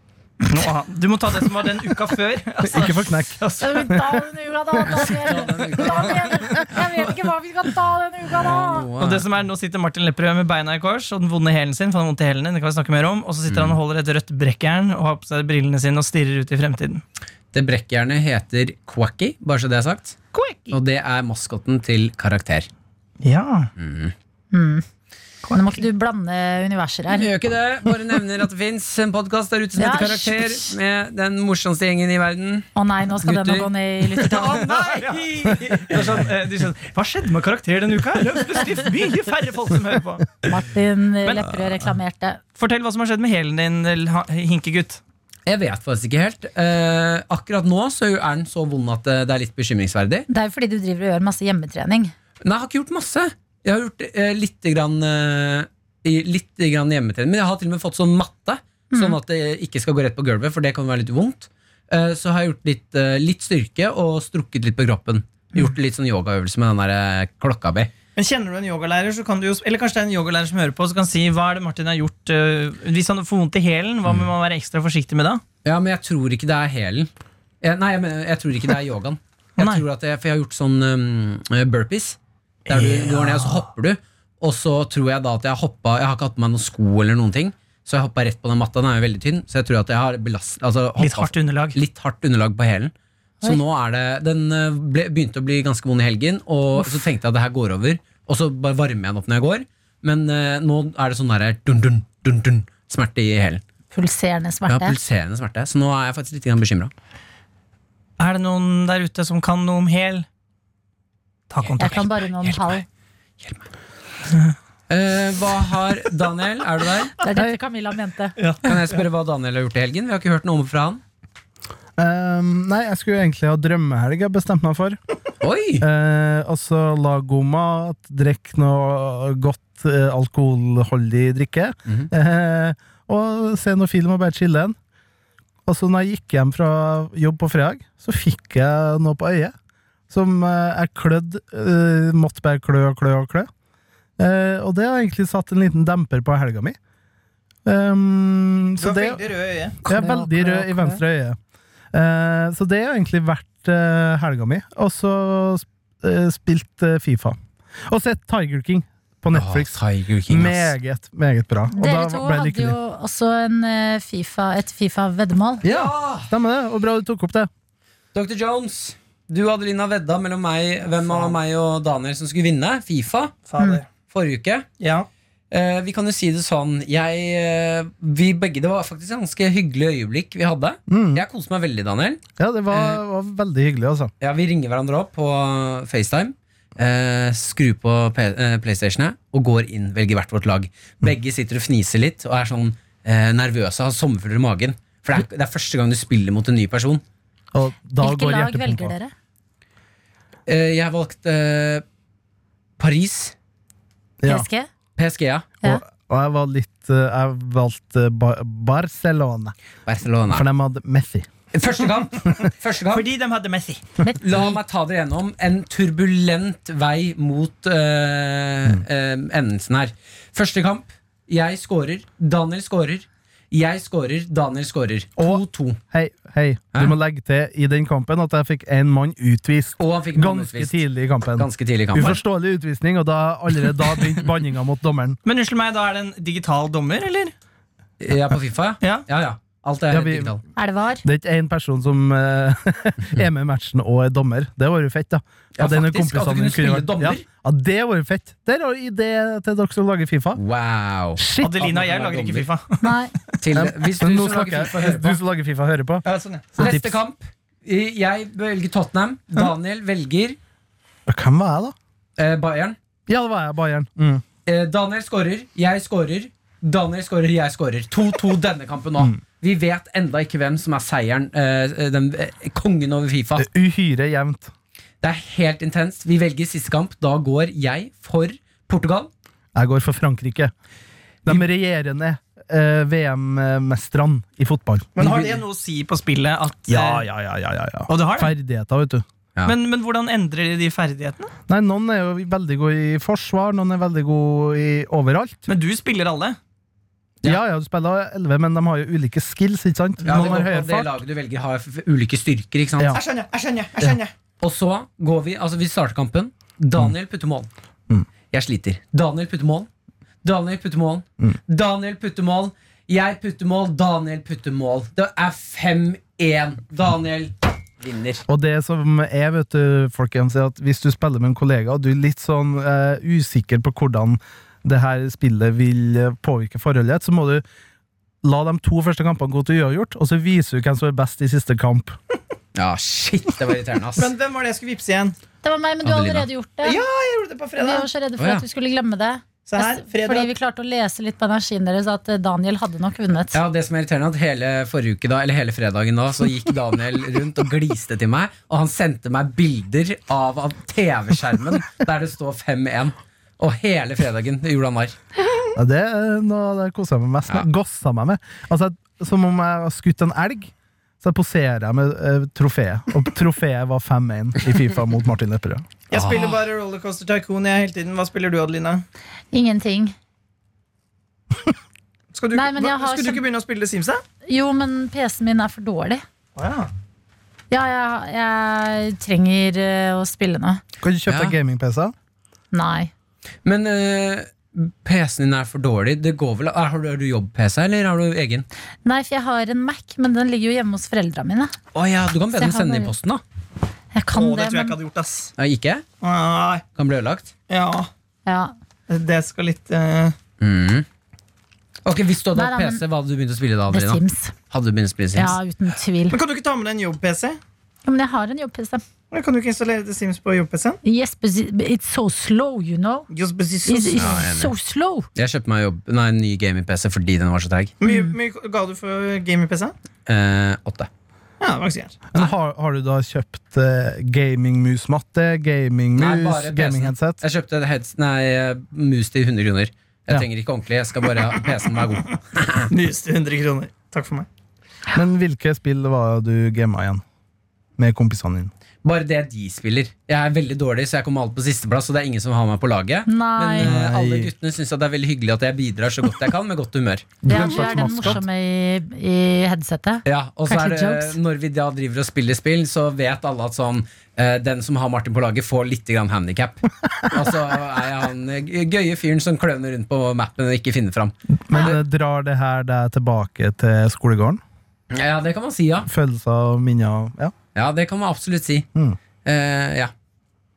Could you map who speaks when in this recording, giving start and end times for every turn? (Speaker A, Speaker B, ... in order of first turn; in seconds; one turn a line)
Speaker A: 0.4-3.9
Speaker B: 2.6-5.1
Speaker C: 3.6-8.9
Speaker D: 4.9-7.0
Speaker D: 8.3-9.3
Speaker A: 9.0-17.0
Speaker D: 13.5-13.8
Speaker D: 17.5-20.1
Speaker A: 20.3-20.8
Speaker D: 20.7-22.7
Speaker A: 23.2-23.7
Speaker D: 23.8-24.1
Speaker C: 24.5-24.8
Speaker A: 25.4-25.8
Speaker C: 25.5-27.3
Speaker D: 27.1-32.7
Speaker C: 29.8-30.8
Speaker C: 32.7-34.6
Speaker D: 33.2-36.0
Speaker A: 34.2-40.4
Speaker C: 40.4-42.4
Speaker A: 41.2-41.6
Speaker A: 42.5-45.0
Speaker D: 45.5-50.3
Speaker C: 50.3-52.1
Speaker D: 52.4-67.9
Speaker C: 58.9-59.2
Speaker A: 68.2-75.4
Speaker D: 75.6-77.1
Speaker D: 77.6-103.6
Speaker A: 79.6-79.8
Speaker A: 82.7-83.6
Speaker A: 91.0-91.8
Speaker C: 103.9-105.0
Speaker D: 104.7-106.9
Speaker A: 108.2-110.2
Speaker A: 111.5-112.0
Speaker D: 111.6-112.8
Speaker C: 111.8-112.8
Speaker D: 113.4-113.7
Speaker D: 114.9-117.2
Speaker C: 117.2-118.4
Speaker A: 118.4-119.0
Speaker D: 118.6-121.0
Speaker B: 122.0-125.0
Speaker D: 125.4-125.8
Speaker B: 125.8-134.8
Speaker B: 135.7-139.5
Speaker B: 140.1-143.5
Speaker B: 144.2-146.8
Speaker B: 147.7-149.2
Speaker A: 148.8-149.8
Speaker C: 149.8-151.0
Speaker B: 149.8-151.4
Speaker B: 151.9-157.4
Speaker B: 157.9-159.8
Speaker D: 159.3-160.7
Speaker B: 160.3-162.8
Speaker C: 161.7-165.6
Speaker D: 165.6-166.3
Speaker B: 165.6-167.5
Speaker D: 168.1-173.3
Speaker A: 170.9-171.4
Speaker A: 173.5-173.8
Speaker D: 174.1-174.7
Speaker A: 174.8-175.1
Speaker D: 175.5-183.0
Speaker B: 180.9-181.2
Speaker B: 182.4-184.1
Speaker D: 184.2-197.0
Speaker B: 197.5-198.9
Speaker C: 198.0-199.1
Speaker D: 200.5-201.8
Speaker D: 202.8-203.3
Speaker B: 204.2-204.5
Speaker C: 204.2-204.7
Speaker D: 205.0-205.4
Speaker B: 205.6-209.5
Speaker D: 209.8-210.4
Speaker B: 210.3-211.3
Speaker D: 211.5-213.1
Speaker A: 212.9-213.8
Speaker D: 214.2-225.8
Speaker B: 225.2-235.2
Speaker D: 229.8-232.2
Speaker A: 235.2-237.3
Speaker D: 238.0-240.4
Speaker B: 239.9-240.3
Speaker C: 240.6-241.0
Speaker B: 241.0-250.4
Speaker D: 245.6-247.2
Speaker D: 250.3-252.5
Speaker B: 251.2-251.7
Speaker A: 251.4-252.9
Speaker C: 252.8-253.1
Speaker D: 253.4-255.2
Speaker B: 253.5-257.0
Speaker A: 256.0-256.6
Speaker D: 256.6-260.4
Speaker B: 261.1-261.7
Speaker D: 262.2-262.8
Speaker B: 263.1-264.2
Speaker D: 264.4-273.4
Speaker B: 273.4-274.5
Speaker D: 275.0-279.1
Speaker B: 279.5-280.5
Speaker B: 281.2-285.0
Speaker A: 284.9-287.1
Speaker D: 285.0-285.3
Speaker B: 286.7-289.0
Speaker A: 287.9-288.3
Speaker A: 289.4-291.3
Speaker B: 291.5-295.4
Speaker A: 295.5-296.4
Speaker B: 297.2-300.9
Speaker D: 300.0-303.0
Speaker A: 302.9-304.1
Speaker D: 304.4-307.5
Speaker D: 308.3-309.7
Speaker D: 310.2-318.2
Speaker B: 318.3-327.4
Speaker B: 328.2-331.9
Speaker D: 332.5-334.1
Speaker A: 333.9-335.2
Speaker C: 335.4-336.8
Speaker D: 335.8-336.3
Speaker A: 336.6-337.9
Speaker C: 337.6-343.4
Speaker D: 338.2-338.4
Speaker A: 339.4-340.3
Speaker D: 343.3-354.9
Speaker B: 355.5-365.6
Speaker A: 365.9-368.8
Speaker D: 365.9-366.4
Speaker C: 369.3-369.9
Speaker A: 372.1-374.0
Speaker C: 372.3-373.2
Speaker C: 374.2-376.0
Speaker A: 376.4-376.7
Speaker C: 377.5-380.6
Speaker B: 380.8-381.9
Speaker D: 381.1-381.4
Speaker C: 382.5-382.9
Speaker D: 383.4-388.4
Speaker C: 388.8-391.5
Speaker D: 391.7-393.2
Speaker C: 392.3-392.9
Speaker C: 393.9-394.8
Speaker A: 394.1-395.3
Speaker D: 395.4-395.8
Speaker A: 396.0-396.6
Speaker D: 396.8-397.3
Speaker A: 397.5-397.9
Speaker C: 398.2-398.5
Speaker A: 398.9-400.1
Speaker D: 400.4-400.9
Speaker D: 401.8-404.0
Speaker C: 402.3-402.8
Speaker C: 403.7-404.3
Speaker D: 404.5-405.4
Speaker C: 405.1-406.2
Speaker A: 406.1-407.4
Speaker C: 407.8-408.8
Speaker A: 409.1-410.8
Speaker C: 410.8-413.1
Speaker A: 413.1-414.1
Speaker C: 413.6-415.1
Speaker D: 414.0-414.5
Speaker D: 415.1-417.7
Speaker A: 417.8-419.7
Speaker D: 420.1-420.9
Speaker A: 421.4-422.0
Speaker B: 422.1-427.2
Speaker D: 425.9-432.7
Speaker A: 432.7-434.3
Speaker B: 434.9-437.0
Speaker B: 437.8-438.5
Speaker D: 438.8-448.2
Speaker C: 443.1-443.7
Speaker B: 443.6-444.3
Speaker B: 447.2-448.2
Speaker C: 447.2-451.1
Speaker D: 450.1-461.1
Speaker B: 456.9-457.2
Speaker B: 461.5-464.4
Speaker D: 464.9-465.9
Speaker B: 465.8-467.3
Speaker D: 467.5-468.6
Speaker D: 469.2-469.9